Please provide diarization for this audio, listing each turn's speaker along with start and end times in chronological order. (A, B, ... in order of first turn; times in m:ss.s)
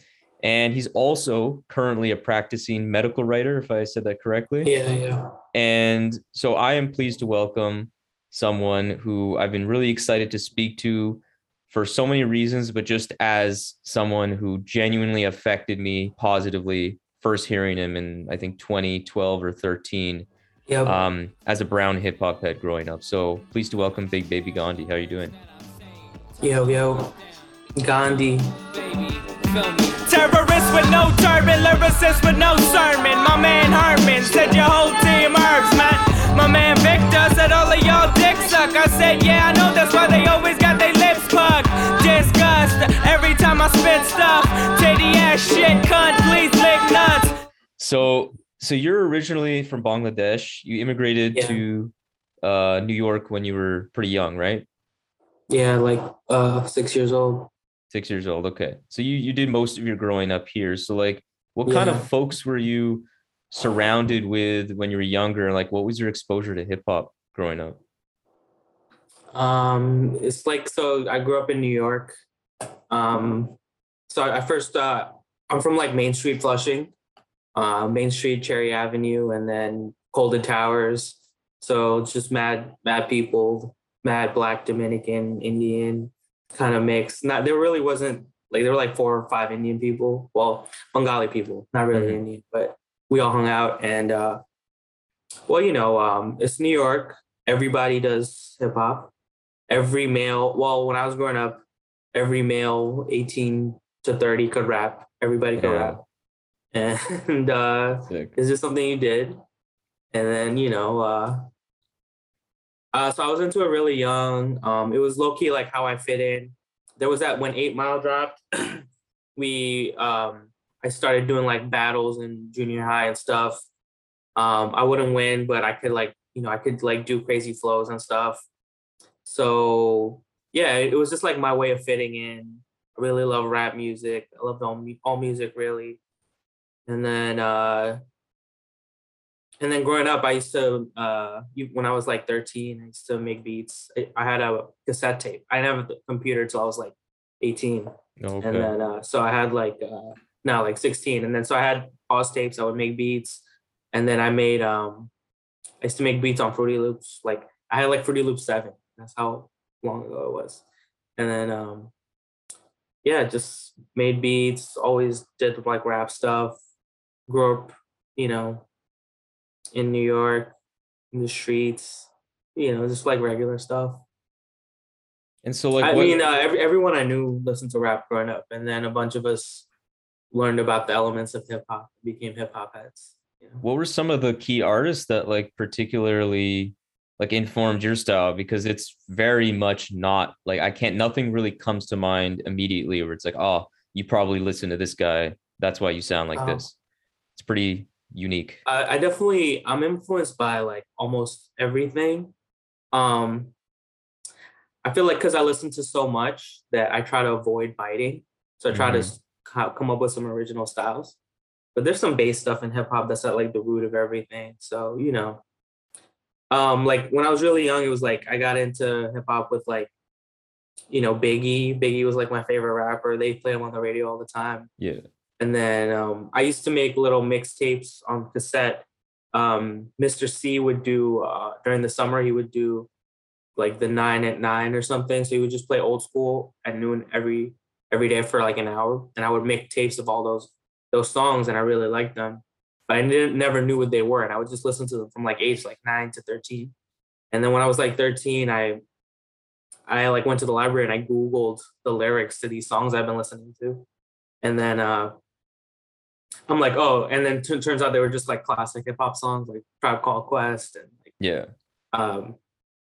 0:00.4-0:04.7 A
0:04.6-0:05.4 B
0:05.5-0:20.3 A
0:20.7-0:21.0 B
0:20.8-0:25.4 A
0:26.4-0:27.1 B
0:27.8-0:28.6 B
0:29.5-0:47.3 C
0:47.8-0:54.6 A
0:51.3-0:51.6 B
0:55.5-0:57.5 B
0:57.9-1:07.8 A
1:01.6-1:02.0 B
1:09.3-1:12.2 B
1:12.9-1:13.6 B
1:14.1-1:16.9 B
1:17.5-1:34.4 B
1:31.9-1:32.2 A
1:35.5-1:39.1 B
1:39.7-1:41.6 B
1:42.1-1:46.0 B
1:45.6-1:46.0 A
1:46.7-1:49.4 B
1:48.1-1:48.3 A
1:50.1-1:51.5 B
1:52.9-1:58.8 B
1:59.4-2:03.6 B
2:04.4-2:08.4 B
2:09.2-2:16.0 B
2:16.9-2:18.0 B
2:19.6-2:35.1 B
2:28.2-2:28.7 A
2:35.8-2:40.6 B
2:41.2-2:41.9 B
2:43.0-2:46.6 B
2:47.3-2:48.6 B
2:49.7-2:50.5 B
2:51.1-2:54.0 B
2:55.4-2:56.2 A
2:55.8-2:59.7 B
3:00.3-3:03.6 B
3:03.6-3:16.7 A
3:16.3-3:16.6 B
3:17.4-3:18.6 A
3:18.6-3:22.3 B
3:22.9-3:23.5 B
3:24.8-3:31.2 B
3:28.7-3:29.1 A
3:31.7-3:35.4 B
3:36.5-3:39.9 B
3:40.9-3:44.7 B
3:44.8-3:45.0 A
3:45.4-3:52.9 B
3:53.6-4:06.7 B
4:07.3-4:08.8 B
4:09.9-4:13.8 B
4:14.4-4:15.2 B
4:16.5-4:21.1 B
4:21.2-4:21.5 A
4:21.9-4:22.4 B